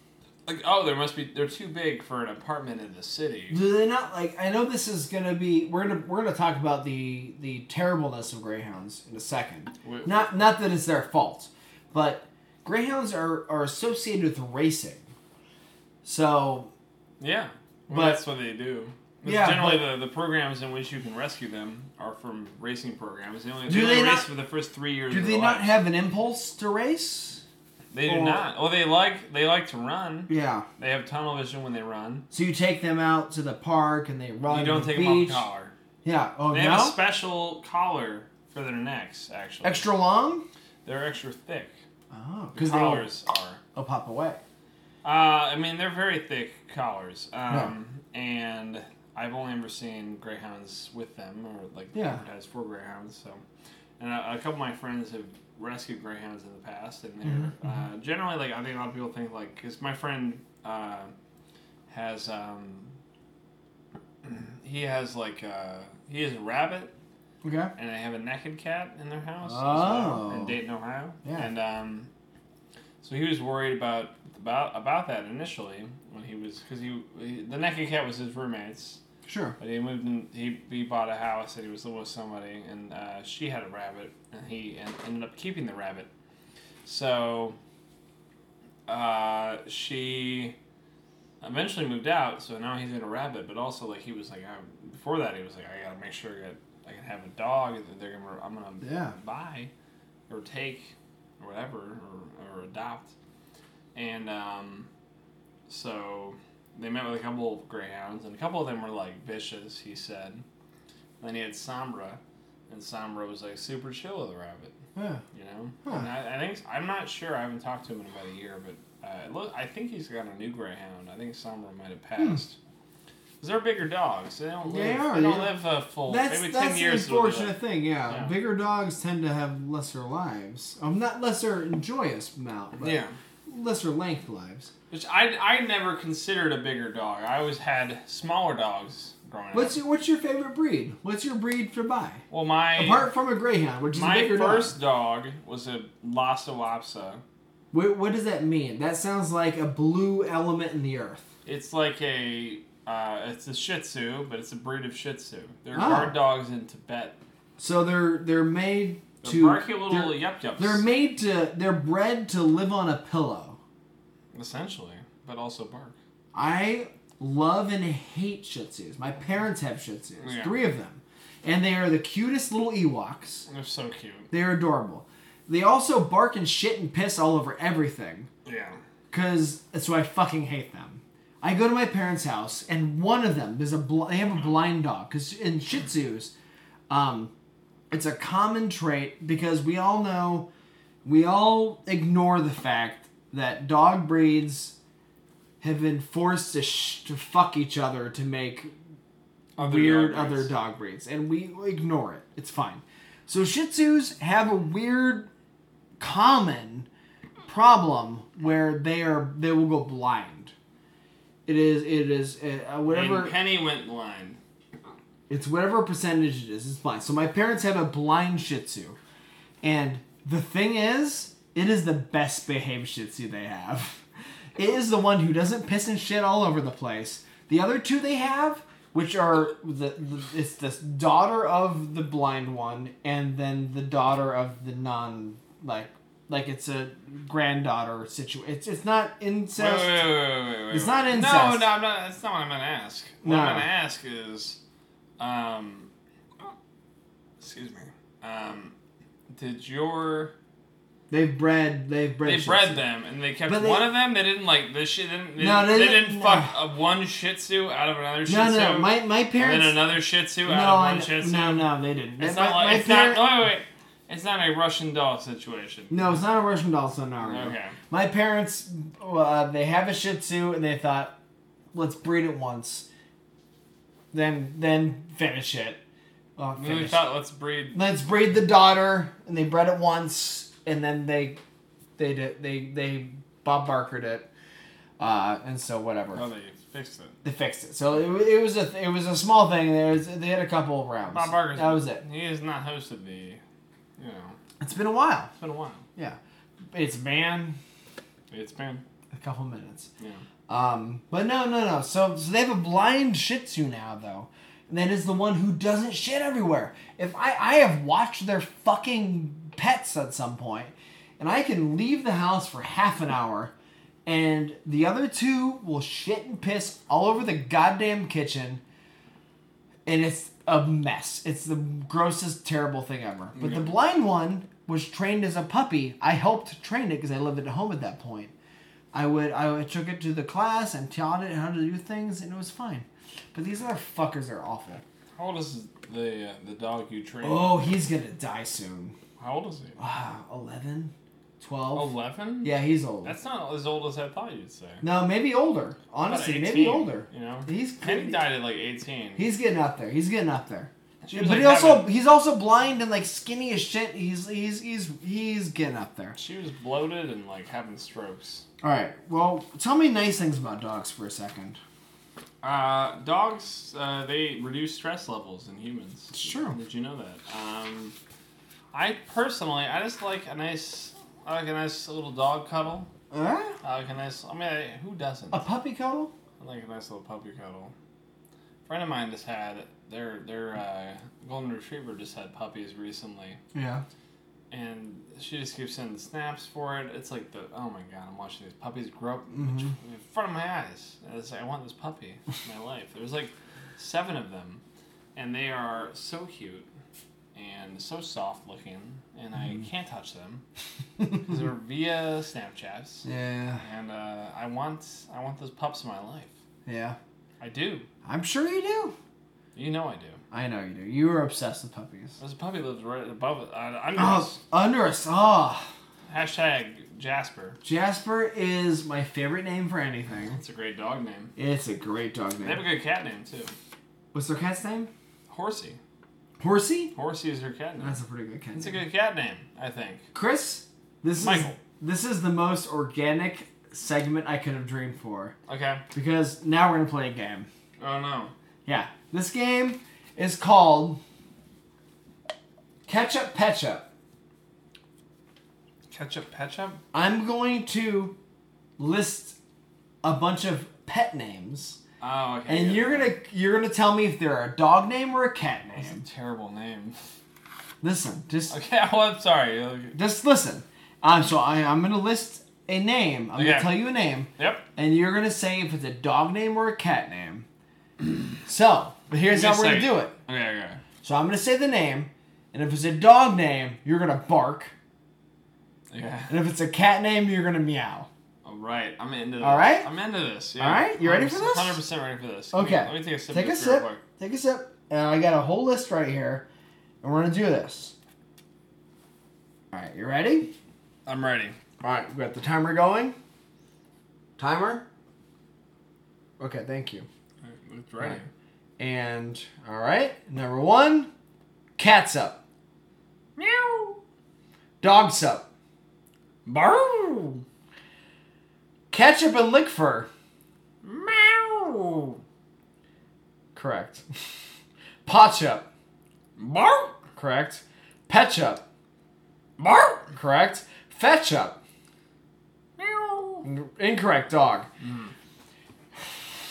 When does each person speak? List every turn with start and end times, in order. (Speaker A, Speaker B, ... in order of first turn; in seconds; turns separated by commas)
Speaker A: 0.5-3.6, Speaker B: 3.5-15.0, Speaker A: 9.8-10.3, Speaker B: 16.0-16.7, Speaker A: 17.2-25.8, Speaker B: 17.9-18.2, Speaker B: 19.2-19.9, Speaker B: 23.7-24.3, Speaker B: 25.1-27.4, Speaker A: 27.9-32.2, Speaker B: 28.1-28.4, Speaker B: 30.3-30.7, Speaker B: 32.3-35.5, Speaker A: 34.5-35.7, Speaker B: 36.0-37.0, Speaker A: 36.5-39.9, Speaker B: 39.6-40.5, Speaker A: 40.9-41.8, Speaker B: 42.1-43.1, Speaker A: 42.5-43.6, Speaker B: 43.8-44.4, Speaker A: 45.0-53.4, Speaker B: 51.9-52.2, Speaker A: 54.0-61.1, Speaker B: 57.2-57.7, Speaker A: 61.9-62.9, Speaker A: 64.2-66.9, Speaker B: 67.4-67.7, Speaker A: 67.8-72.1, Speaker B: 69.4-70.6, Speaker B: 71.2-71.5, Speaker A: 73.0-79.0, Speaker B: 79.3-79.6, Speaker A: 79.6-86.1, Speaker A: 86.8-87.6, Speaker A: 88.9-90.6, Speaker A: 91.4-99.7, Speaker B: 98.8-99.2, Speaker A: 100.3-103.1, Speaker A: 103.9-104.9, Speaker A: 105.7-110.4, Speaker A: 111.2-114.8, Speaker B: 115.0-115.2, Speaker A: 115.3-122.6, Speaker A: 123.4-128.3, Speaker B: 124.7-125.5, Speaker B: 126.1-134.7, Speaker A: 132.8-133.1, Speaker A: 134.9-139.8, Speaker B: 139.5-142.2, Speaker A: 142.3-143.1, Speaker B: 142.8-144.7, Speaker A: 143.9-147.2, Speaker B: 147.7-151.3, Speaker A: 151.4-157.2, Speaker B: 155.7-156.2, Speaker B: 157.6-163.6, Speaker A: 159.2-160.8, Speaker A: 164.3-165.9, Speaker B: 166.3-173.5, Speaker A: 170.2-170.6, Speaker A: 173.5-174.3, Speaker B: 174.3-178.3, Speaker A: 178.4-178.8, Speaker B: 179.1-186.3, Speaker B: 186.9-187.3, Speaker B: 187.9-190.5, Speaker B: 191.1-194.8, Speaker B: 195.6-198.7, Speaker A: 199.6-200.5, Speaker B: 199.6-205.3, Speaker B: 206.0-206.9, Speaker B: 207.5-210.5, Speaker B: 211.5-213.3, Speaker A: 212.9-214.4, Speaker B: 215.3-219.0, Speaker B: 219.6-224.0, Speaker B: 224.6-240.1, Speaker A: 239.6-244.6, Speaker B: 240.7-241.7, Speaker B: 243.2-243.7, Speaker A: 245.2-245.9, Speaker A: 247.4-248.7, Speaker A: 249.3-250.3, Speaker B: 251.1-252.8, Speaker A: 252.2-266.2, Speaker B: 253.5-253.9, Speaker B: 255.4-256.6, Speaker B: 258.3-259.8, Speaker B: 260.4-263.3, Speaker B: 265.9-271.2, Speaker A: 267.2-267.8, Speaker B: 271.7-272.9, Speaker B: 274.1-275.8, Speaker B: 276.4-277.1, Speaker A: 276.6-277.8, Speaker B: 277.7-281.4, Speaker B: 282.0-284.3, Speaker B: 285.0-286.2, Speaker A: 286.1-287.2, Speaker B: 287.2-292.0, Speaker A: 291.1-293.4, Speaker A: 294.0-294.4, Speaker B: 294.6-295.3, Speaker A: 295.4-295.8, Speaker B: 296.7-297.6, Speaker A: 298.3-298.8, Speaker B: 299.1-299.9, Speaker B: 300.5-313.5, Speaker B: 314.1-318.6, Speaker B: 319.9-328.3, Speaker A: 323.4-323.7, Speaker B: 328.9-334.8, Speaker A: 335.2-337.6, Speaker B: 337.2-338.9, Speaker A: 339.2-339.8, Speaker B: 339.8-341.9, Speaker A: 341.7-344.8, Speaker B: 342.4-343.1, Speaker B: 344.8-348.2, Speaker A: 346.0-349.2, Speaker B: 349.2-356.2, Speaker A: 351.0-351.9, Speaker A: 356.2-358.4, Speaker B: 358.6-361.6, Speaker A: 362.4-367.9, Speaker B: 366.1-366.6, Speaker A: 368.7-372.9, Speaker B: 373.1-373.6, Speaker A: 373.6-375.4, Speaker B: 375.3-376.1, Speaker A: 376.4-377.7, Speaker A: 378.7-383.4, Speaker B: 383.5-383.8, Speaker A: 384.5-394.6, Speaker B: 389.3-389.7, Speaker A: 395.1-396.7, Speaker A: 397.4-400.4, Speaker A: 401.2-403.1, Speaker B: 403.1-403.6, Speaker A: 403.6-406.3, Speaker B: 406.7-407.0, Speaker A: 407.4-407.9, Speaker B: 408.1-408.9, Speaker A: 409.6-410.2, Speaker B: 410.3-412.2, Speaker A: 412.2-414.4, Speaker B: 414.0-415.7, Speaker A: 416.1-417.6, Speaker B: 417.6-420.4, Speaker A: 420.3-421.3, Speaker B: 421.4-422.6, Speaker A: 422.4-423.5, Speaker B: 424.1-424.9, Speaker A: 425.3-425.8, Speaker B: 426.4-426.9, Speaker A: 426.9-428.0, Speaker B: 427.8-428.8, Speaker A: 428.6-430.1, Speaker B: 430.1-435.4, Speaker A: 431.2-431.6, Speaker A: 435.5-435.8, Speaker B: 435.9-437.5, Speaker A: 437.8-438.3, Speaker B: 438.7-441.0, Speaker B: 442.9-443.9, Speaker A: 445.9-446.8, Speaker B: 446.9-448.2, Speaker B: 448.8-449.4, Speaker B: 450.0-451.8, Speaker A: 452.0-453.1, Speaker B: 452.5-456.1, Speaker A: 455.8-457.0, Speaker B: 457.8-458.6, Speaker A: 458.5-460.0, Speaker B: 459.9-467.5, Speaker A: 463.4-463.8, Speaker A: 464.4-464.7, Speaker B: 468.4-470.1, Speaker A: 469.3-470.8, Speaker B: 471.0-474.7, Speaker A: 475.9-476.3, Speaker B: 476.3-478.1, Speaker A: 478.4-484.0, Speaker B: 479.4-479.9, Speaker B: 480.6-481.8, Speaker B: 482.5-486.5, Speaker B: 487.0-487.9, Speaker B: 489.7-490.5, Speaker A: 491.1-491.6, Speaker B: 491.8-493.2, Speaker B: 494.4-494.9, Speaker B: 496.4-497.1, Speaker A: 497.4-498.3, Speaker B: 498.8-501.1, Speaker B: 501.8-502.4, Speaker A: 503.4-504.0, Speaker B: 504.8-505.4, Speaker A: 506.4-507.4, Speaker B: 508.9-510.1, Speaker A: 510.8-512.2, Speaker B: 513.5-514.1, Speaker B: 515.0-515.7, Speaker A: 516.4-517.0, Speaker B: 517.2-518.6, Speaker A: 519.6-520.1, Speaker B: 520.1-521.6, Speaker A: 522.8-523.5, Speaker B: 523.4-524.7, Speaker A: 524.8-525.1